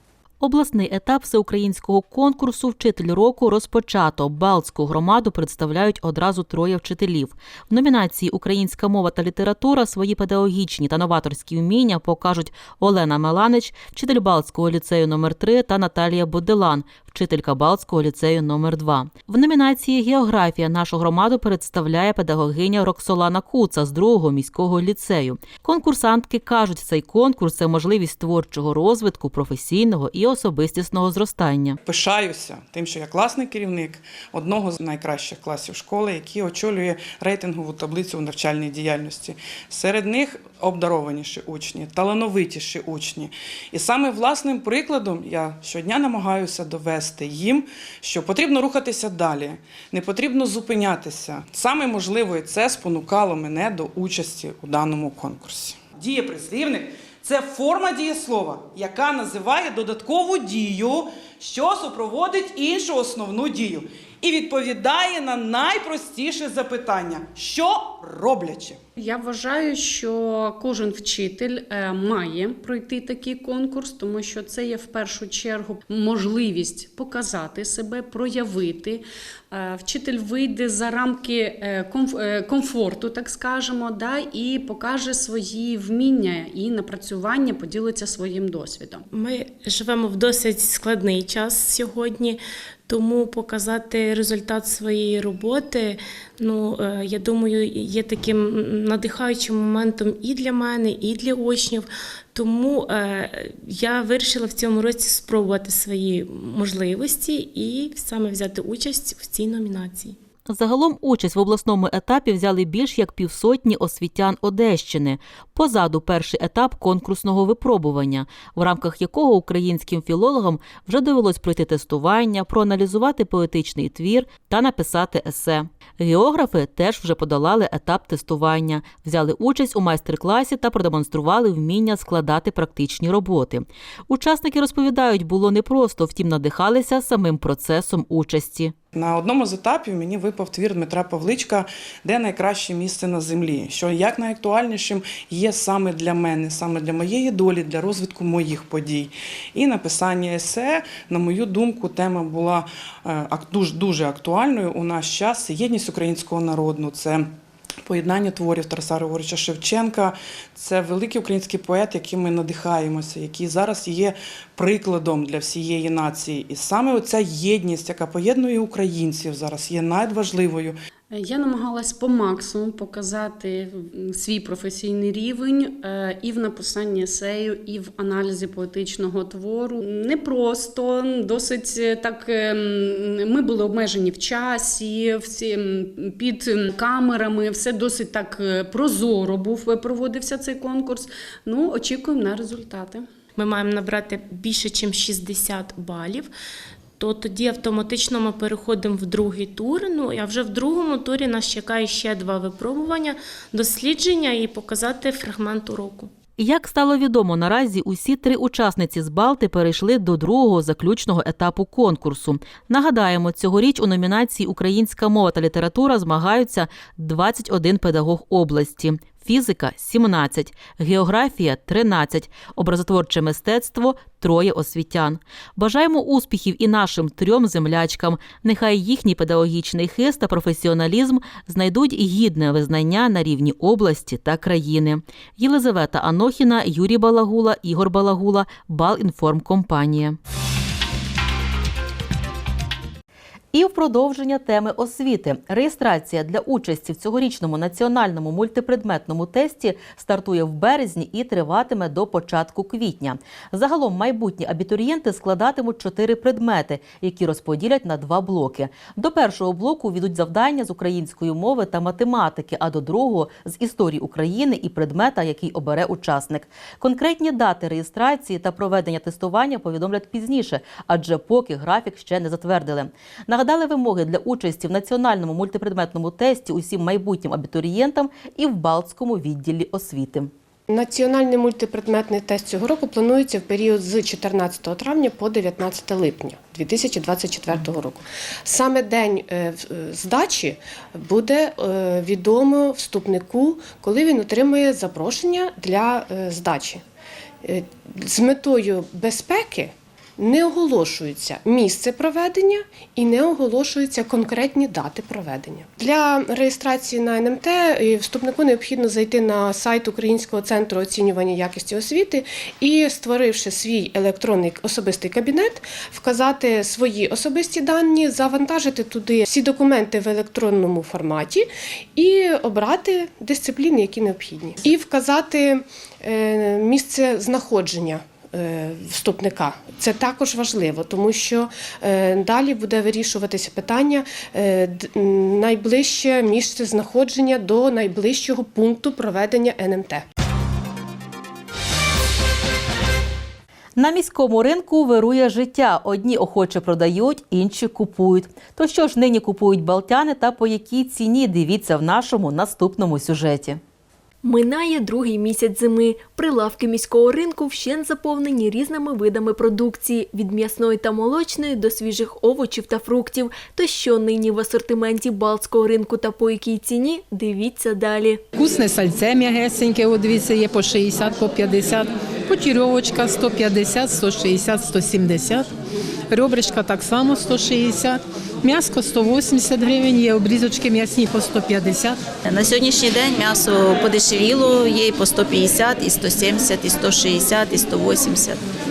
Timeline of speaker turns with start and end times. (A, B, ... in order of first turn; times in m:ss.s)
0:00.4-0:31.8 A
0:31.8-1:08.8 B
1:09.0-1:29.0 C
1:29.1-1:50.2 D
1:50.5-2:18.7 A
2:18.9-2:37.3 B
2:37.8-2:50.8 B
2:51.1-3:13.0 C
3:13.4-3:16.3 D
3:17.0-3:26.1 D
3:26.4-4:00.2 A
4:03.5-4:40.3 A
4:40.7-4:56.8 E
4:57.4-5:40.0 E
5:43.8-5:53.6 A
5:54.2-6:08.2 F
6:08.3-6:15.5 G
6:16.1-6:22.0 G
6:22.2-6:28.4 H